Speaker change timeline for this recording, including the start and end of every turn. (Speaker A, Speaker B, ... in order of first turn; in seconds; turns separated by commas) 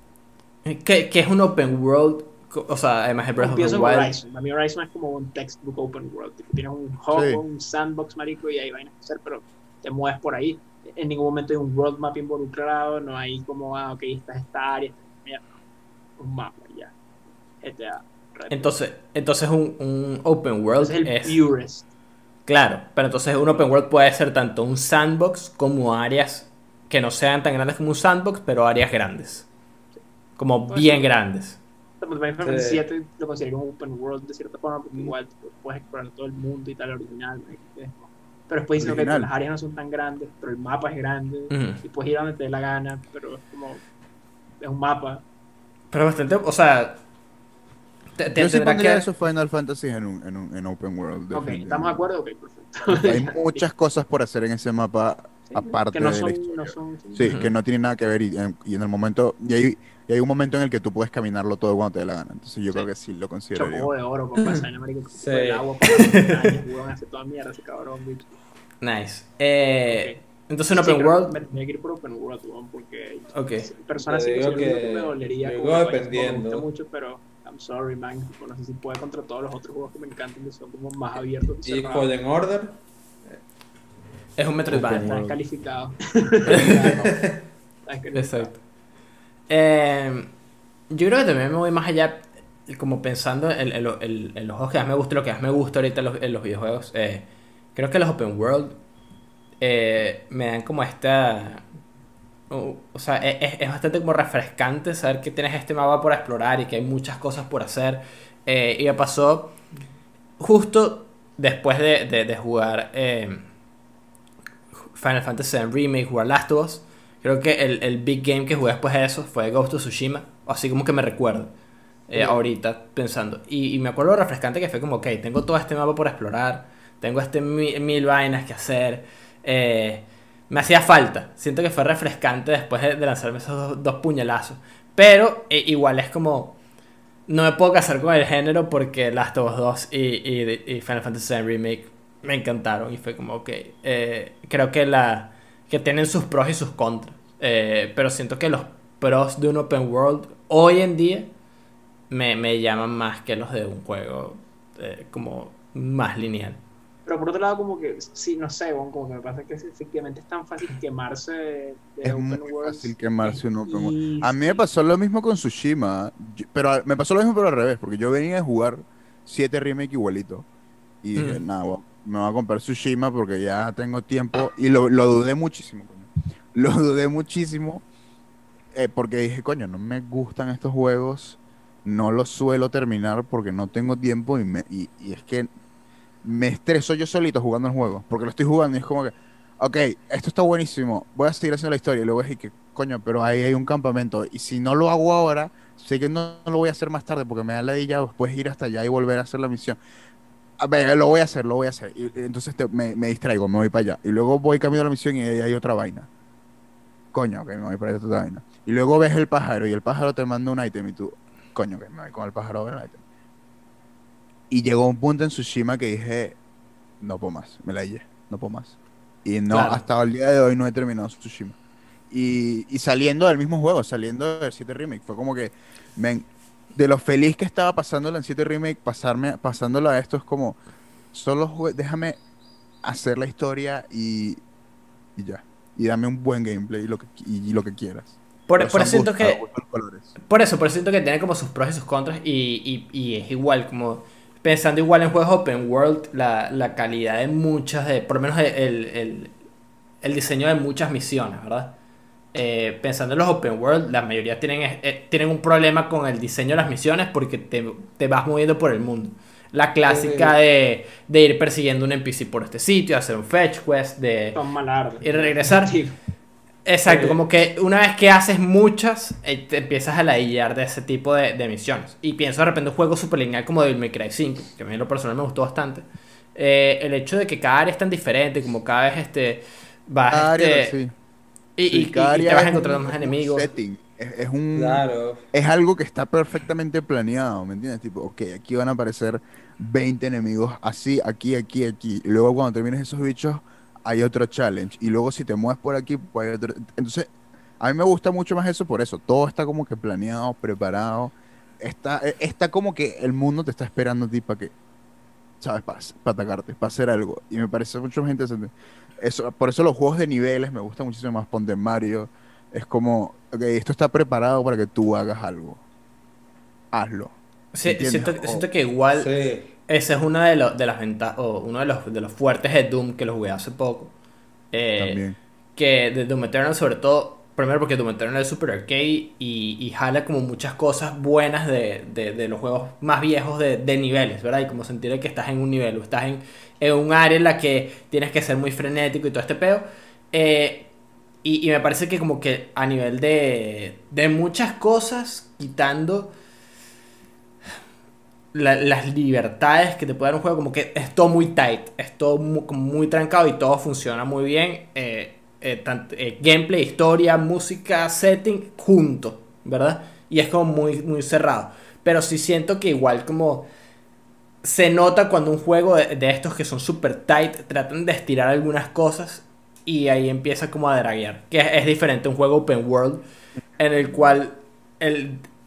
Speaker A: 0.6-4.1, Speaker B: 3.4-15.5, Speaker C: 7.1-7.4, Speaker B: 16.2-16.9, Speaker B: 17.6-18.7, Speaker A: 18.5-21.4, Speaker B: 20.8-21.9, Speaker A: 22.5-29.5, Speaker A: 30.4-31.6, Speaker B: 30.7-31.1, Speaker B: 32.0-43.8, Speaker D: 32.4-32.8, Speaker C: 38.8-39.3, Speaker A: 41.5-41.8, Speaker B: 44.6-45.2, Speaker A: 45.9-47.0, Speaker A: 48.2-49.1, Speaker C: 48.3-52.0, Speaker B: 51.3-53.6, Speaker C: 52.9-63.9, Speaker B: 55.5-57.4, Speaker B: 63.5-68.4, Speaker D: 65.1-65.7, Speaker A: 65.9-66.6, Speaker A: 68.8-71.4, Speaker B: 69.9-82.1, Speaker A: 73.3-73.7, Speaker D: 74.0-76.6, Speaker D: 81.6-82.8, Speaker A: 84.4-85.2, Speaker C: 84.7-85.4, Speaker B: 85.0-87.3, Speaker C: 86.5-87.1, Speaker D: 86.8-87.4, Speaker B: 87.9-88.5, Speaker A: 88.1-88.6, Speaker A: 89.5-90.3, Speaker A: 90.9-98.8, Speaker A: 99.6-101.6, Speaker A: 102.5-109.5, Speaker A: 110.4-113.5, Speaker A: 114.9-121.5, Speaker A: 122.1-136.6, Speaker B: 122.1-122.4, Speaker A: 137.3-151.3, Speaker A: 152.1-156.6, Speaker B: 157.1-164.6, Speaker C: 162.0-170.4, Speaker C: 171.0-177.8, Speaker A: 171.2-171.4, Speaker C: 178.7-185.5, Speaker C: 186.2-199.8, Speaker C: 200.6-206.1, Speaker C: 207.1-213.0, Speaker C: 214.5-216.4, Speaker C: 217.0-221.6, Speaker A: 219.5-219.8, Speaker C: 222.1-230.6, Speaker C: 231.1-232.2, Speaker C: 232.8-234.4, Speaker C: 235.2-240.1, Speaker A: 238.5-239.4, Speaker A: 240.2-249.3, Speaker A: 250.0-251.7, Speaker A: 252.3-264.4, Speaker D: 259.9-260.3, Speaker B: 264.3-266.0, Speaker A: 265.0-265.7, Speaker A: 266.6-280.8, Speaker D: 266.8-267.2, Speaker C: 280.1-280.9, Speaker A: 281.6-283.5, Speaker C: 281.7-304.5, Speaker D: 284.6-285.2, Speaker C: 305.4-315.6, Speaker C: 316.7-318.4, Speaker A: 317.5-319.1, Speaker D: 318.9-319.5, Speaker A: 319.7-323.9, Speaker A: 324.5-325.0, Speaker C: 324.8-325.2, Speaker A: 325.6-340.7, Speaker A: 341.2-346.1, Speaker A: 348.3-363.5, Speaker A: 364.4-373.0, Speaker A: 373.6-375.3